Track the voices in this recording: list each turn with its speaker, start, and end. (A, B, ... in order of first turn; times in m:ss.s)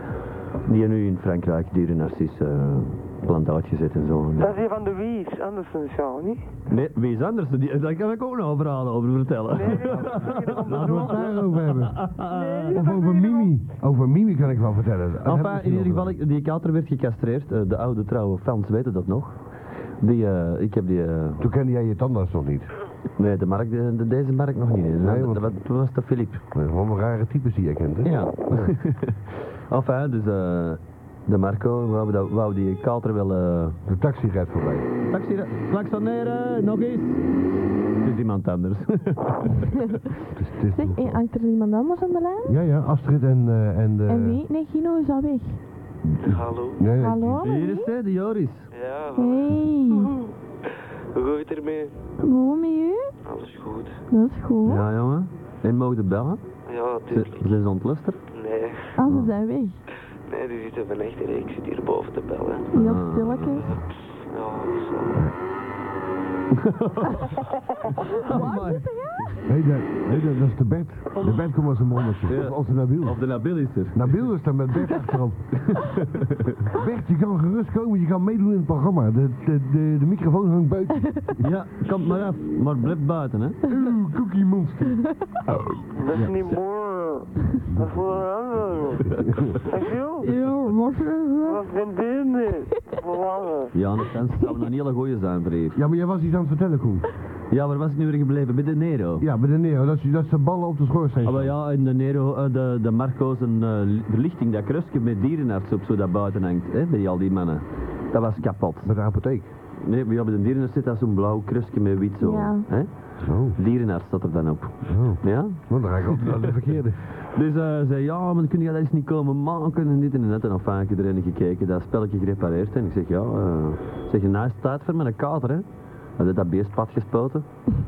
0:00.7-0:04.6 A
0:04.4-0:06.5 B
0:06.7-0:12.8 A
0:09.5-0:11.4 B
0:10.0-0:12.1 C
0:12.2-0:13.5 B
0:12.7-0:16.1 C
0:15.2-0:19.4 A
0:20.0-0:21.5 A
0:21.4-0:22.7 C
0:23.2-0:26.4 A
0:25.0-0:25.5 C
0:26.5-0:28.8 C
0:28.0-0:33.8 A
0:33.8-0:34.9 C
0:35.1-0:37.2 A
0:38.0-0:39.5 A
0:40.3-0:41.2 C
0:40.7-0:42.5 D
0:42.4-0:44.4 C
0:44.1-0:45.6 D
0:46.0-0:47.4 C
0:46.2-0:46.8 E
0:46.9-0:47.9 D
0:47.4-0:48.7 A
0:48.7-0:50.3 E
0:49.1-0:50.1 D
0:51.1-0:52.0 E
0:52.2-0:53.1 D
0:53.2-0:54.0 E
0:54.1-0:54.8 D
0:54.6-0:56.4 A
0:56.7-0:57.5 E
0:57.1-0:58.2 A
0:58.3-0:59.0 E
0:59.0-0:59.8 D
0:59.1-0:59.3 A
1:00.3-1:02.7 E
1:02.7-1:03.7 D
1:02.7-1:03.7 A
1:03.6-1:05.2 E
1:06.5-1:07.4 A
1:08.1-1:09.4 D
1:08.2-1:09.4 A
1:09.4-1:16.0 C
1:12.3-1:14.3 A
1:15.7-1:16.5 A
1:16.7-1:21.5 C
1:21.4-1:23.6 A
1:23.6-1:26.4 C
1:26.0-1:29.1 B
1:27.7-1:28.0 C
1:29.1-1:29.6 C
1:29.6-1:30.3 B
1:30.2-1:31.6 D
1:31.4-1:33.7 B
1:33.7-1:35.8 A
1:35.7-1:37.0 C
1:37.5-1:39.2 A
1:39.2-1:41.5 C
1:41.2-1:49.0 A
1:48.8-1:49.5 C
1:49.8-1:56.5 A
1:52.2-1:52.6 D
1:53.2-1:53.6 C
1:54.9-1:57.0 C
1:57.2-2:05.6 A
2:06.2-2:07.4 A